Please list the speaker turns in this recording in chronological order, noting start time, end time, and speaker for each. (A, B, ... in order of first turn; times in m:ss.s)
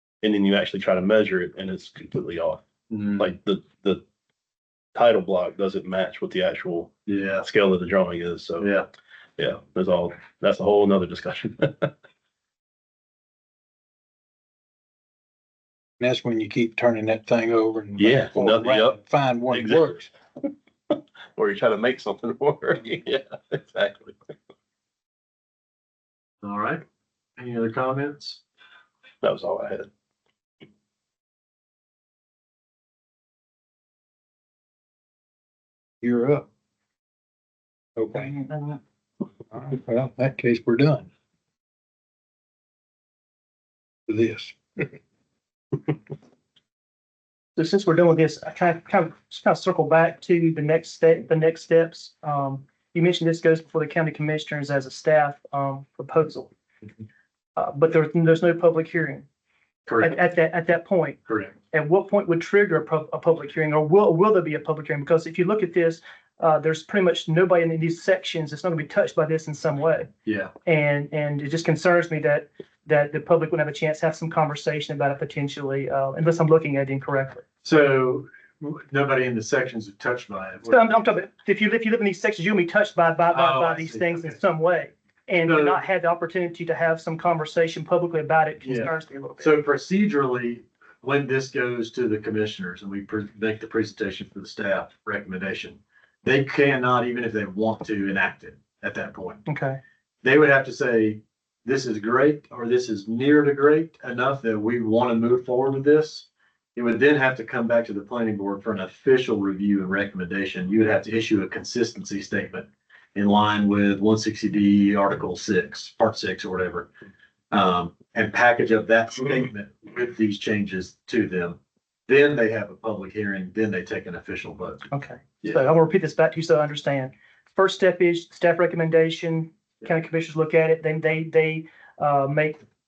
0:00.2-0:02.6 A
0:02.9-0:03.3 B
0:03.2-0:04.0 A
0:05.0-0:08.7 A
0:07.1-0:07.5 B
0:08.6-0:08.9 B
0:09.4-0:11.9 A
0:16.0-0:20.1 C
0:18.0-0:19.0 A
0:19.5-0:19.9 A
0:21.4-0:24.2 A
0:26.4-0:26.8 B
0:27.4-0:28.4 B
0:29.2-0:29.9 A
0:36.0-0:36.5 C
0:38.0-0:38.4 C
0:39.5-0:41.1 C
0:44.1-0:45.0 C
0:47.6-0:56.5 D
0:57.6-0:59.3 D
0:59.9-1:00.2 B
1:00.0-1:10.1 D
1:01.3-1:01.6 B
1:10.2-1:10.5 B
1:10.7-1:17.4 D
1:17.6-1:21.0 B
1:20.7-1:29.6 D
1:23.3-1:24.4 B
1:25.4-1:25.8 B
1:28.6-1:39.4 B
1:39.5-1:39.8 D
1:40.2-1:56.9 B
1:57.5-2:04.8 B
2:04.9-2:12.6 D